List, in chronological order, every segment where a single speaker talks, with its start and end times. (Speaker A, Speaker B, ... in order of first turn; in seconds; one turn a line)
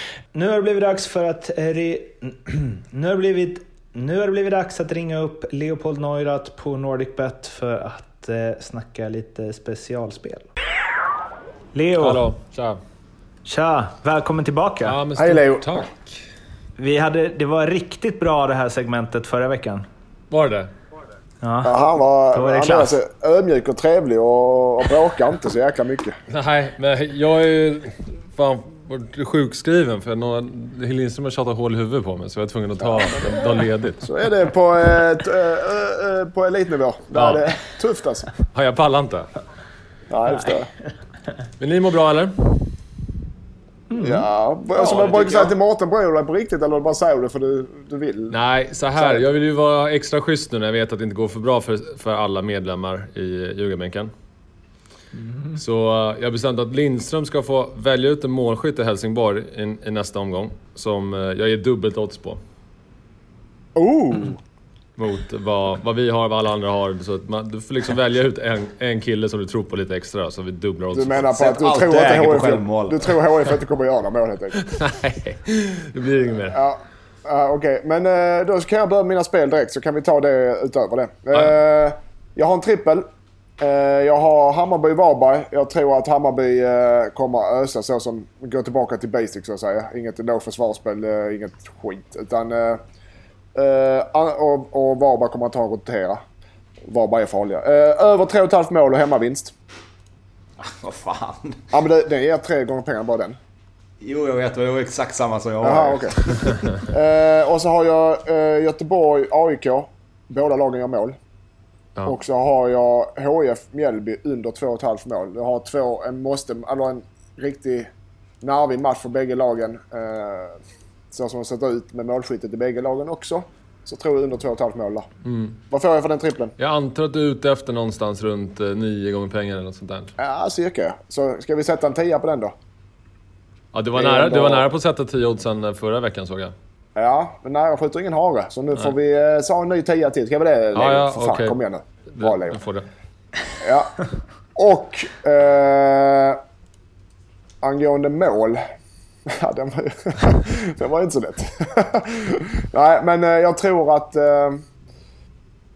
Speaker A: 0.3-10.5
Speaker A: 11.7-12.3
Speaker B: 12.0-12.8
Speaker A: 13.4-15.0
Speaker B: 14.8-16.1
Speaker C: 15.2-15.9
Speaker A: 16.8-19.9
Speaker B: 20.3-20.7
Speaker A: 21.4-21.8
Speaker C: 21.6-26.2
Speaker A: 22.3-23.0
Speaker B: 26.3-34.0
Speaker C: 32.8-33.4
Speaker C: 34.0-38.3
Speaker B: 37.1-37.5
Speaker B: 38.5-39.3
Speaker C: 40.1-40.7
Speaker B: 41.6-42.7
Speaker A: 43.9-44.3
Speaker C: 44.0-48.4
Speaker D: 44.8-45.5
Speaker B: 48.3-54.1
Speaker C: 49.0-49.2
Speaker B: 55.6-62.4
Speaker C: 63.8-64.4
Speaker B: 65.0-71.3
Speaker C: 70.9-74.7
Speaker D: 71.3-73.2
Speaker B: 74.7-76.6
Speaker C: 76.5-83.1
Speaker C: 83.6-92.8
Speaker C: 93.5-96.2
Speaker C: 96.9-99.5
Speaker D: 100.6-101.7
Speaker C: 101.7-103.4
Speaker D: 104.0-106.6
Speaker C: 105.6-111.2
Speaker C: 112.0-117.9
Speaker C: 118.4-120.6
Speaker C: 121.1-125.1
Speaker B: 125.2-125.6
Speaker C: 125.7-126.5
Speaker B: 126.6-130.1
Speaker C: 130.2-132.5
Speaker B: 133.7-136.5
Speaker C: 133.9-134.7
Speaker C: 137.0-142.6
Speaker B: 140.8-141.6
Speaker B: 142.1-142.9
Speaker C: 143.6-144.0
Speaker C: 144.6-146.4
Speaker C: 147.6-148.6
Speaker C: 149.3-154.6